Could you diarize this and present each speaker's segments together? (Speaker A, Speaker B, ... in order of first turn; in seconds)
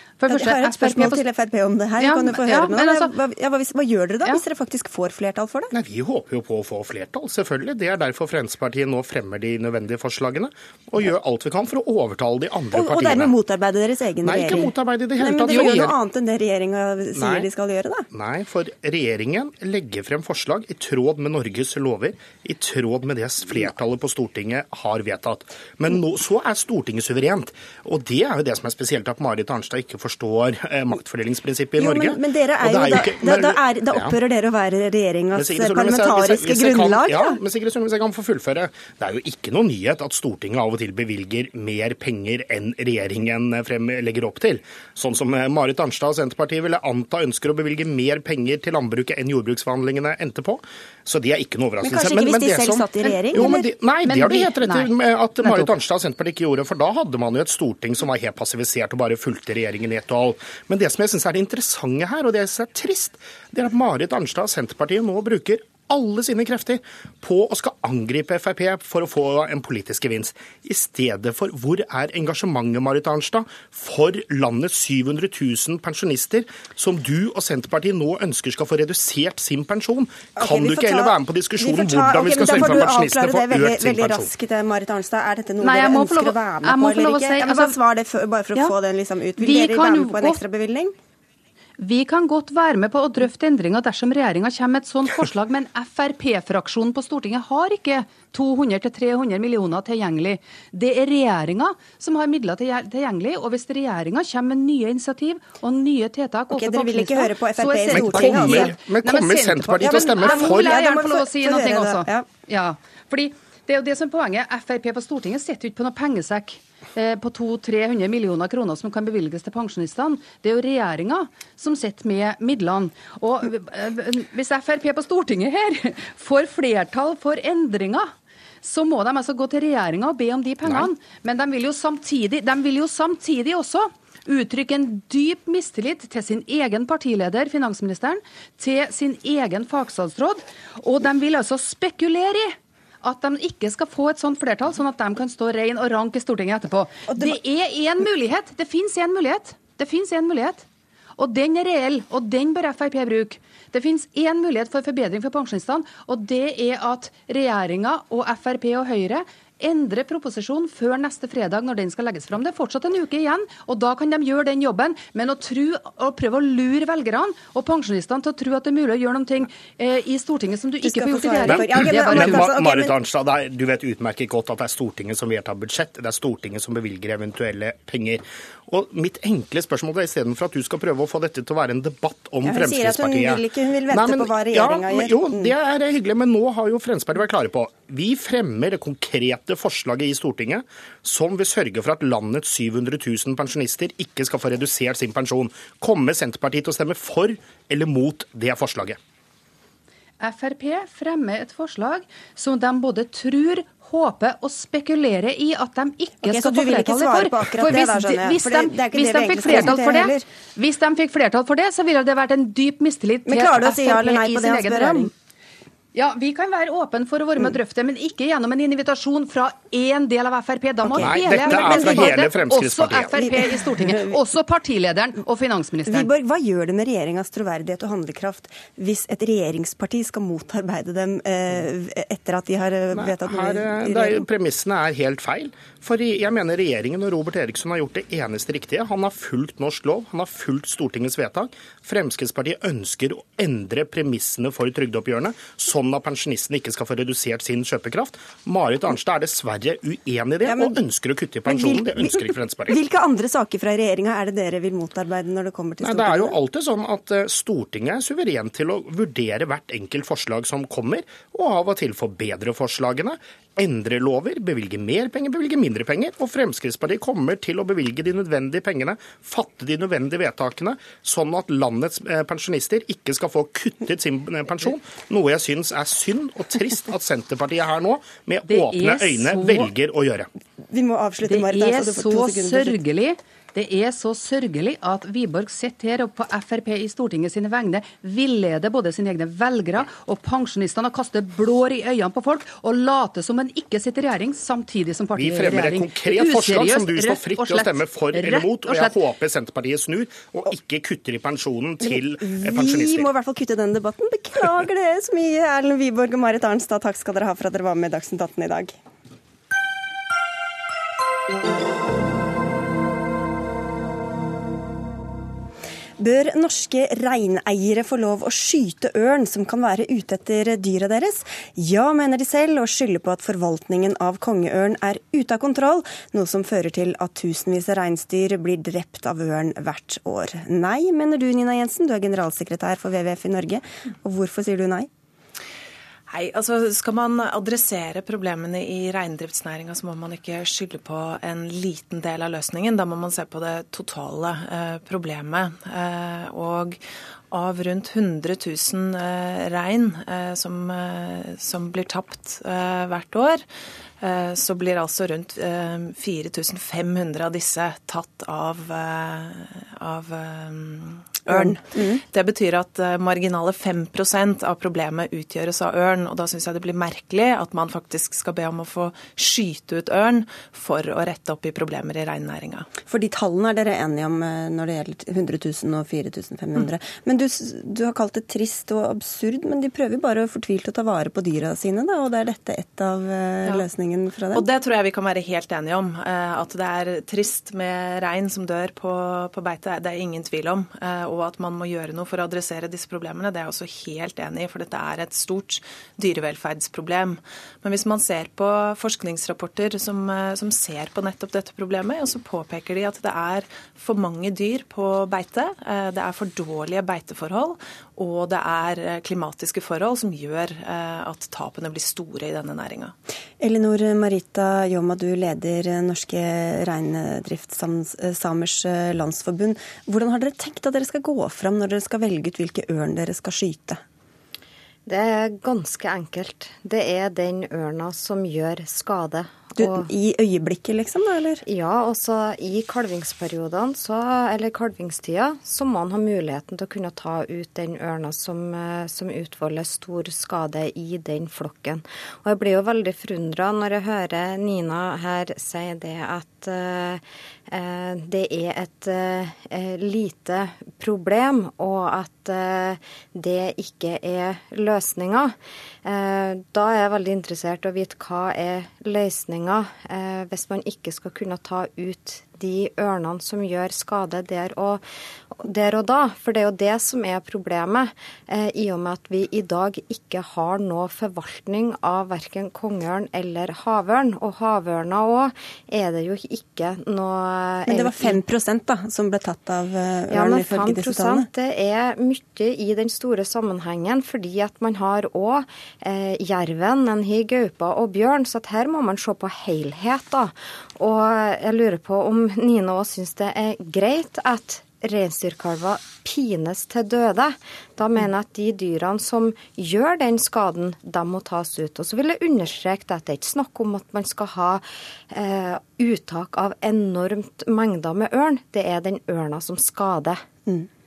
Speaker A: 0.2-1.2, 2.0-3.1, 53.4-55.7, 85.6-87.8, 89.4-90.4, 91.8-150.7, 151.2-172.5, 200.2-215.1, 215.9-226.1, 278.5-279.7, 281.2-298.9
Speaker B: 0.3-5.7, 12.7-18.1, 31.8-37.4, 51.8-53.6, 80.4-90.9, 106.5-108.7, 109.8-112.3, 147.1-147.4, 170.8-172.9, 182.4-185.5, 206.2-210.2, 213.2-215.1, 220.8-222.2, 223.1-224.2, 225.9-234.2, 250.5-250.7, 251.5-256.4, 280.7-282.8, 301.8-308.7, 316.0-334.9, 361.3-362.0, 372.9-384.4, 413.4-423.8, 429.6-431.4, 477.7-481.3
Speaker C: 5.7-13.3, 14.2-15.9, 17.1-17.5, 18.1-34.1, 35.4-84.3, 107.9-110.8, 171.5-199.0, 221.0-223.2, 232.9-252.8, 255.8-280.3, 295.1-303.1
Speaker D: 336.1-353.4, 354.0-372.7, 384.3-412.9
Speaker E: 424.9-429.9, 431.4-464.8, 465.4-478.2, 480.1-510.2